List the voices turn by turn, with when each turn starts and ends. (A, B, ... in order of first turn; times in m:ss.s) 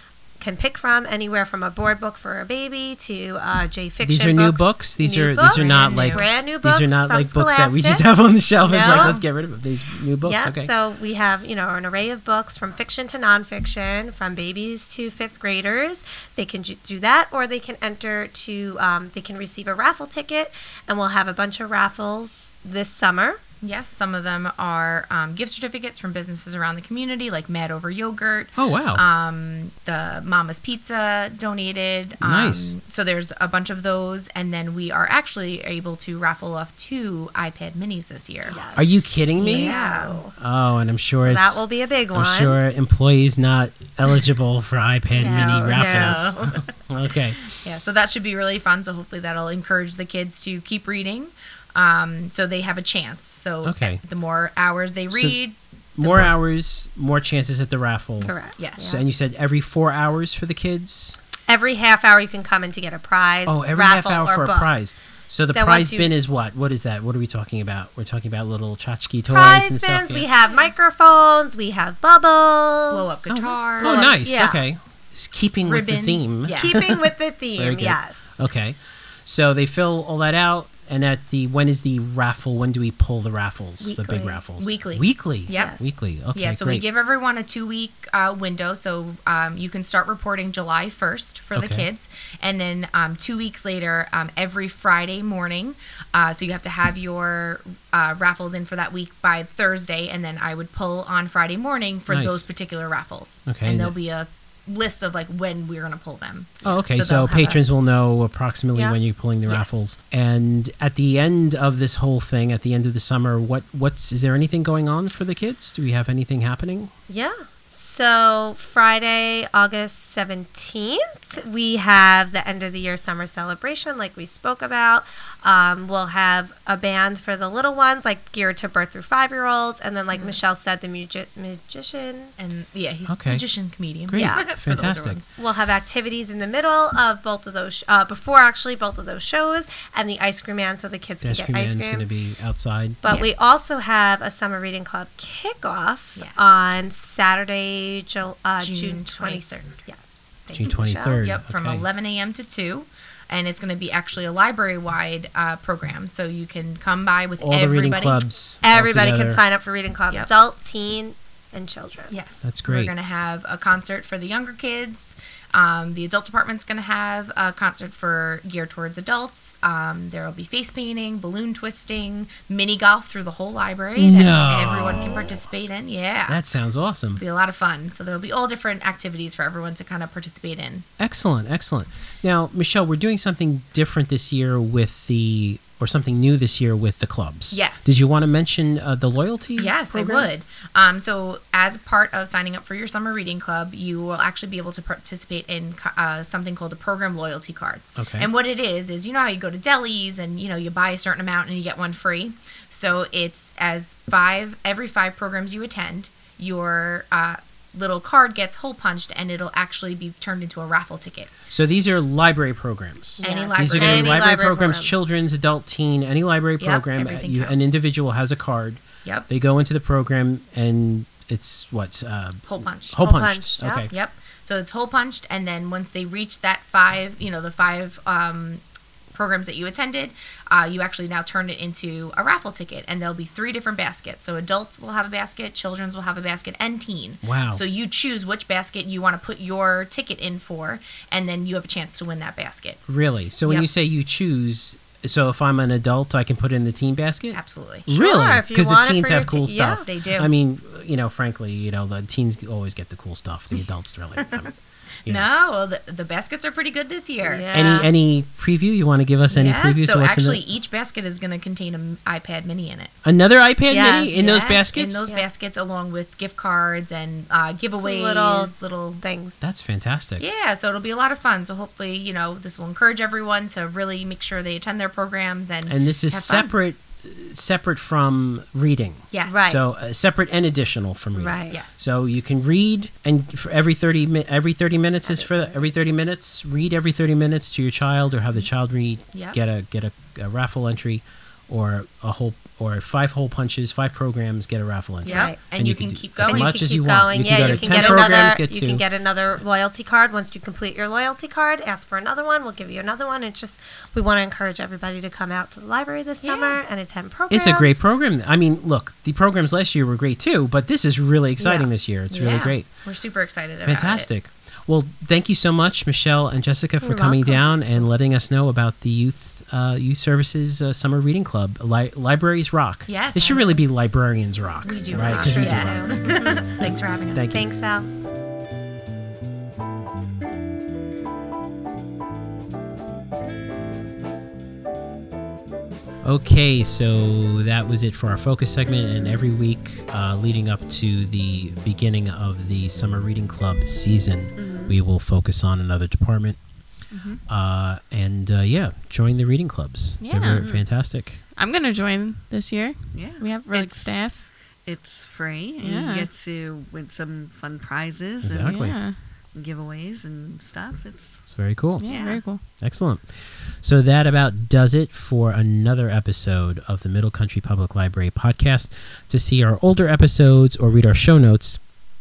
0:00.4-0:09.2 A
0:04.0-0:10.7 B
0:05.5-0:06.3 C
0:10.0-0:23.4 A
0:23.6-0:38.6 C
0:28.6-0:29.0 B
0:32.2-0:32.7 B
0:38.5-0:40.3 A
0:38.8-0:39.7 B
0:39.4-0:40.2 C
0:40.4-0:47.4 B
0:41.1-0:42.6 A
0:45.2-0:46.4 A
0:45.2-0:46.5 C
0:47.6-0:56.3 C
0:53.6-0:54.0 B
0:55.1-0:55.4 B
0:56.0-1:01.2 B
0:58.2-0:59.0 A
0:58.6-0:59.0 C
1:01.5-1:04.8 A
1:03.4-1:10.3 B
1:05.5-1:06.2 A
1:09.3-1:13.2 A
1:10.4-1:10.7 C
1:12.9-1:14.4 C
1:13.3-1:16.9 B
1:13.8-1:14.6 A
1:15.6-1:16.8 C
1:16.5-1:18.3 A
1:17.6-1:26.8 B
1:23.8-1:24.4 A
1:24.6-1:47.6 C
1:25.5-1:26.0 A
1:31.5-1:31.9 B
1:42.1-1:42.5 B
1:43.4-1:43.9 B
1:46.6-1:56.9 B
1:48.7-1:49.8 A
1:57.1-2:12.3 A
2:10.1-2:10.4 C
2:12.4-2:15.3 C
2:13.1-2:13.5 B
2:14.1-2:15.2 B
2:14.1-2:14.6 A
2:15.3-2:22.1 A
2:21.2-2:23.0 B
2:23.0-2:31.2 A
2:23.0-2:23.3 C
2:26.1-2:26.7 C
2:28.6-2:29.6 C
2:30.5-2:31.8 B
2:31.2-2:38.2 C
2:37.4-2:39.4 B
2:38.6-2:42.2 A
2:42.1-2:56.4 C
2:42.4-2:42.9 B
2:54.0-2:55.4 B
2:56.3-2:57.2 B
2:57.2-3:00.8 C
3:01.0-3:10.3 B
3:07.5-3:08.0 C
3:09.6-3:31.3 C
3:18.0-3:18.3 B
3:31.5-3:43.9 B
3:33.2-3:35.0 A
3:33.2-3:34.4 C
3:36.6-3:37.8 C
3:42.5-3:43.1 C
3:43.0-3:43.9 A
3:43.9-3:48.6 C
3:49.1-4:02.8 C
3:57.2-3:57.6 B
4:02.9-4:14.5 B
4:03.4-4:03.7 C
4:07.3-4:07.9 C
4:07.9-4:09.8 A
4:09.8-4:10.3 C
4:15.1-4:17.5 C
4:17.2-4:17.9 A
4:17.5-4:20.4 B
4:19.3-4:22.9 C
4:23.0-4:25.1 B
4:23.7-4:24.4 A
4:24.1-4:29.0 C
4:27.8-4:29.4 A
4:29.4-4:30.2 B
4:30.2-4:36.5 C
4:35.7-4:58.8 B
4:39.1-4:39.5 C
4:39.3-4:39.6 A
4:41.2-4:41.6 A
4:41.5-4:41.8 C
4:45.0-4:45.5 A
4:49.1-4:49.4 C
4:55.0-4:55.4 A
4:55.0-4:56.6 C
4:56.2-5:07.8 A
5:06.2-5:06.6 C
5:07.3-5:12.7 B
5:11.4-5:11.7 A
5:12.1-5:14.1 C
5:13.6-5:26.0 B
5:16.8-5:17.9 A
5:22.8-5:23.5 C
5:24.6-5:27.3 C
5:24.9-5:26.4 A
5:27.1-5:27.4 B
5:27.3-5:27.9 A
5:36.0-5:46.4 B
5:44.4-5:44.8 D
5:46.9-5:47.2 E
5:47.3-5:51.2 B
5:50.0-5:50.5 E
5:50.3-5:50.6 D
5:51.4-5:54.3 E
5:52.9-5:54.1 D
5:54.6-5:58.7 D
5:55.6-5:56.1 E
5:58.2-5:58.8 B
5:58.4-5:59.0 E
5:59.3-6:02.2 D
6:01.3-6:01.9 B
6:01.8-6:02.4 E
6:02.4-6:11.6 B